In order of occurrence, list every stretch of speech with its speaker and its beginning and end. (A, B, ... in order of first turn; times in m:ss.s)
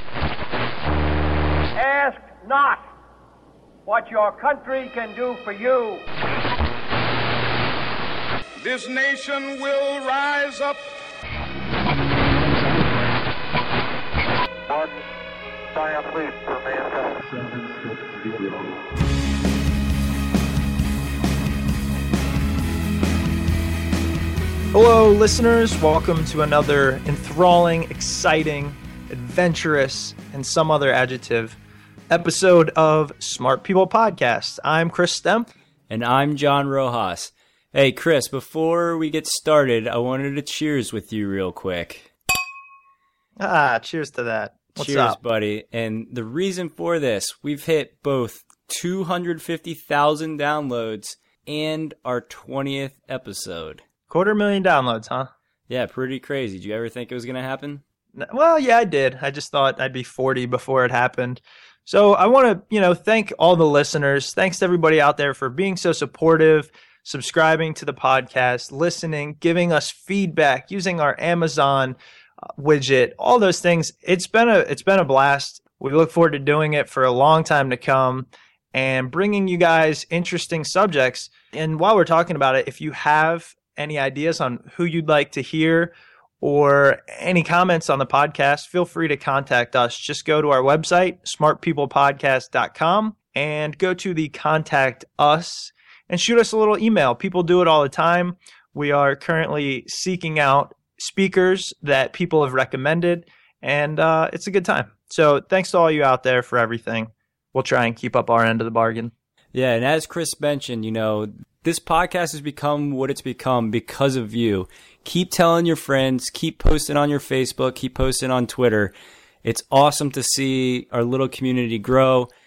0:01.8-0:02.8 A
0:03.9-0:06.0 A
0:08.6-0:10.8 B
0:14.7-0:15.0 C
0:15.7-0:18.7 C
0:24.7-0:31.6 D
0:32.1-0:35.5 D
0:35.9-0:42.1 E
0:43.4-0:45.2 D
0:44.8-0:53.8 E
0:54.1-0:55.3 D
0:55.7-0:57.8 E
0:58.2-1:12.0 D
1:12.6-1:49.1 D
1:49.5-1:58.9 E
1:59.4-2:02.3 E